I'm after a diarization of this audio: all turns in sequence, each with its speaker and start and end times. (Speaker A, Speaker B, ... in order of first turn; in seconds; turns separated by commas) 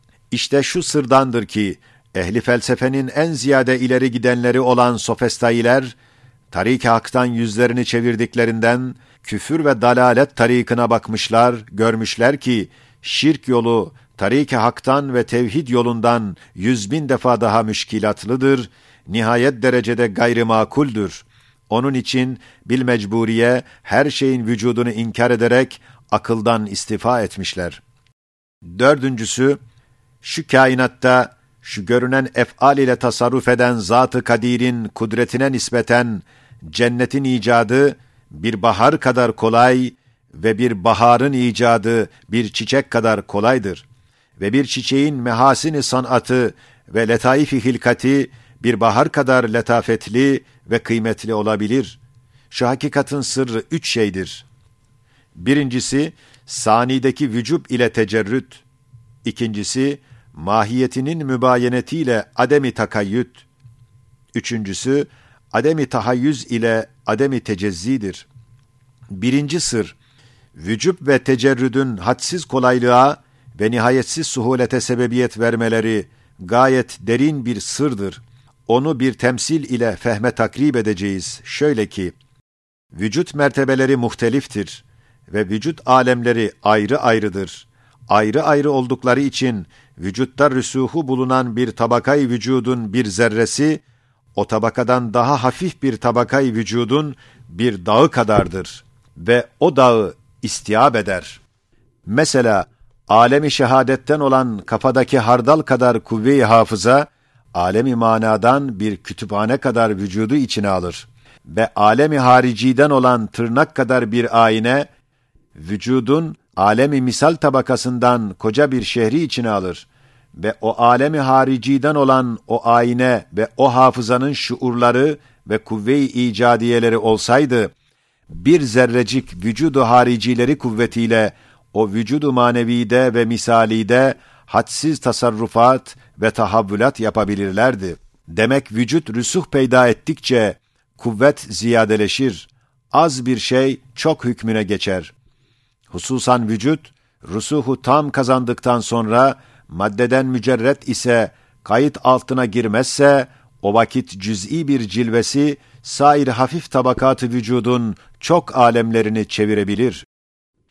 Speaker A: 0.3-5.9, Speaker A: 6.5-27.8, Speaker A: 28.8-29.6, Speaker A: 30.2-43.8, Speaker A: 44.4-52.0, Speaker A: 52.5-54.5, Speaker A: 55.4-58.6, Speaker A: 59.2-63.4, Speaker A: 64.3-68.2, Speaker A: 69.1-70.0, Speaker A: 70.5-82.1, Speaker A: 82.9-93.8, Speaker A: 94.3-101.4, Speaker A: 102.0-114.9, Speaker A: 115.5-127.7, Speaker A: 128.3-145.1, Speaker A: 145.9-160.1